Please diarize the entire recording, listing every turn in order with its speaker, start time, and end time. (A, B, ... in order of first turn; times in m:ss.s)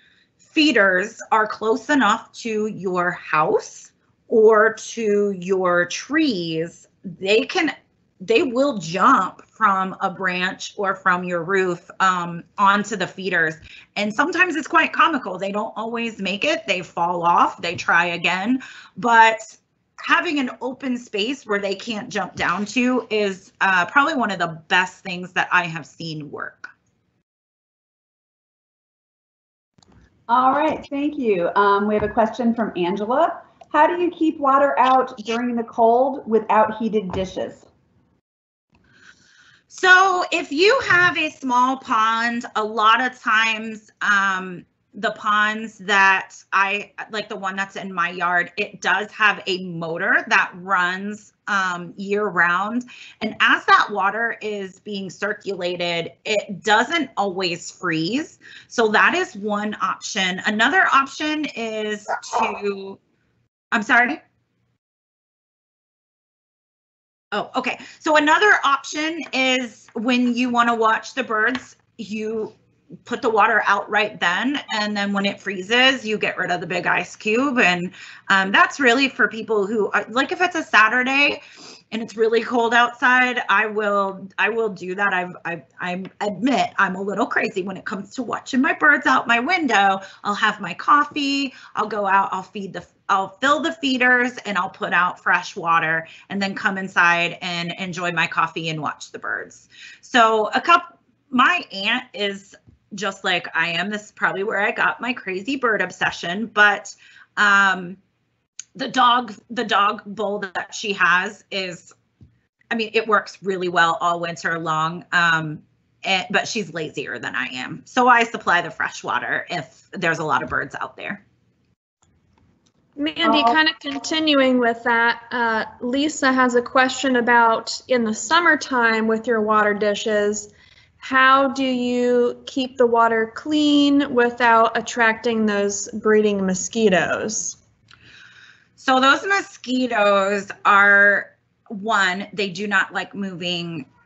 0:00.4-0:26.7 A
0:30.3-0:37.6 B
0:39.7-1:03.0 A
1:03.7-1:04.2 A
1:07.3-1:12.5 A
1:13.0-1:48.0 A
1:48.8-1:51.9 A
1:52.7-2:01.2 A
2:03.0-2:17.6 C
2:03.2-2:03.6 B
2:18.8-2:23.9 A